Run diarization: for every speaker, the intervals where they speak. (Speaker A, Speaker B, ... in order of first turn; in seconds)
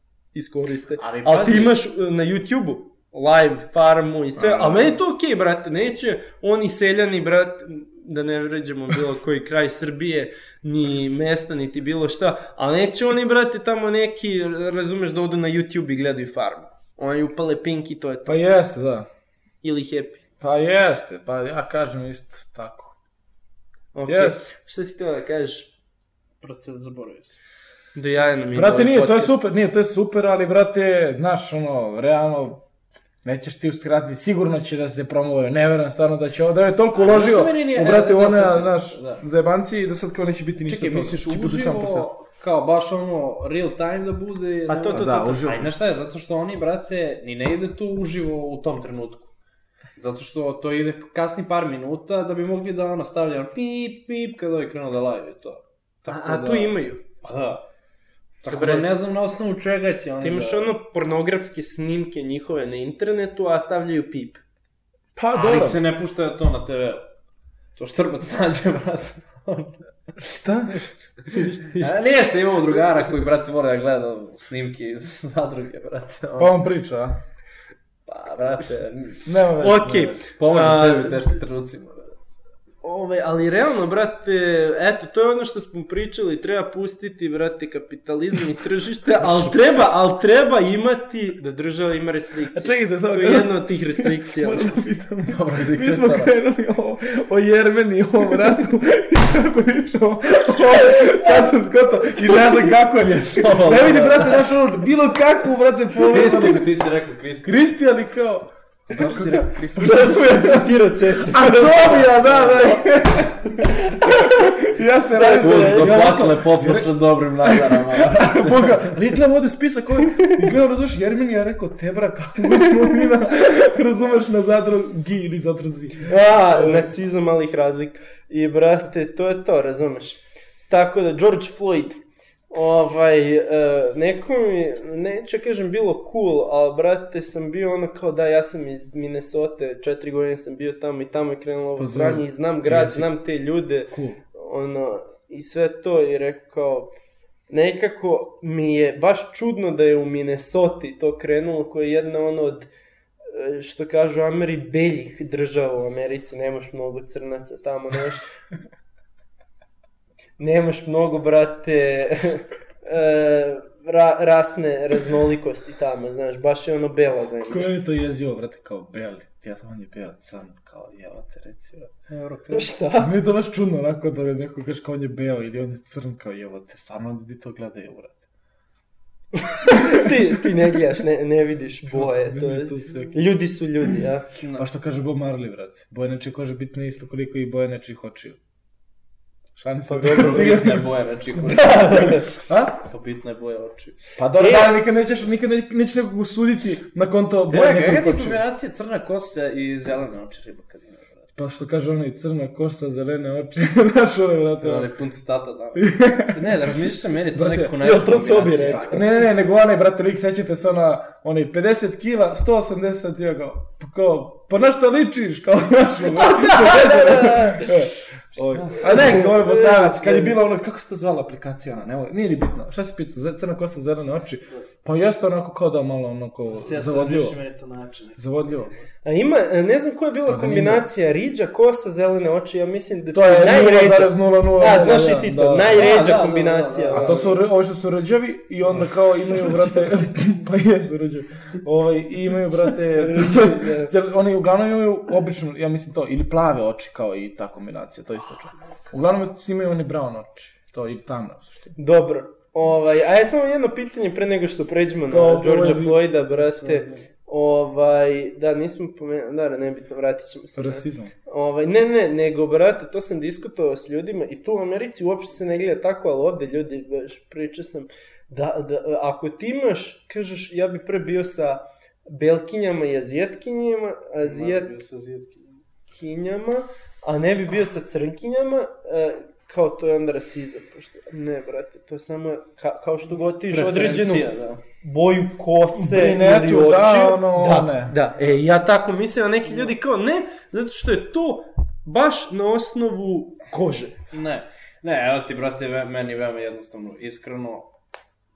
Speaker A: 0.3-18.4, 19.6-20.2, 23.9-25.7, 27.9-29.4, 44.7-45.4, 56.1-57.0, 58.5-58.9, 60.2-64.4, 71.3-72.0, 79.6-81.2, 82.8-94.8, 109.8-112.8, 114.0-114.5, 115.1-116.2, 126.0-146.9, 147.5-152.7, 153.3-158.2, 160.4-167.7, 172.5-173.1, 179.6-184.2, 191.4-192.3, 194.4-194.8, 207.8-209.0, 216.1-217.9, 218.7-220.4, 229.0-237.3, 243.0-243.9, 251.8-274.8, 275.9-284.3, 284.8-294.0
Speaker B: 1.0-1.8, 26.4-27.4, 37.0-39.2, 40.6-49.3, 50.0-57.6, 58.4-60.7, 65.3-67.0, 67.8-70.3, 71.8-76.6, 78.1-79.3, 80.2-82.1, 89.2-89.5, 95.3-96.3, 103.3-104.5, 106.0-107.6, 108.9-110.2, 112.0-112.7, 115.4-119.1, 172.1-172.7, 184.4-184.6, 189.9-194.0, 197.5-201.2, 204.6-209.0, 218.4-219.2, 226.5-228.2, 235.7-237.3, 256.4-257.0, 274.2-275.5, 283.5-284.6, 294.1-297.7
Speaker C: 4.3-5.0, 18.2-19.1, 20.4-22.9, 24.1-24.4, 28.5-32.6, 33.2-42.1, 44.9-45.8, 65.2-65.8, 70.4-71.5, 76.4-77.2, 79.2-80.1, 92.5-106.7, 107.4-110.7, 111.3-116.9, 117.4-126.9, 141.8-143.1, 143.9-144.2, 167.4-171.9, 173.0-178.2, 181.9-183.2, 184.6-188.4, 189.5-190.9, 194.2-198.4, 201.4-204.9, 205.7-206.7, 207.3-207.8, 208.4-227.3, 228.2-228.7, 230.2-230.9, 233.1-235.9, 236.9-251.7, 255.1-256.1, 260.6-261.1, 285.7-287.9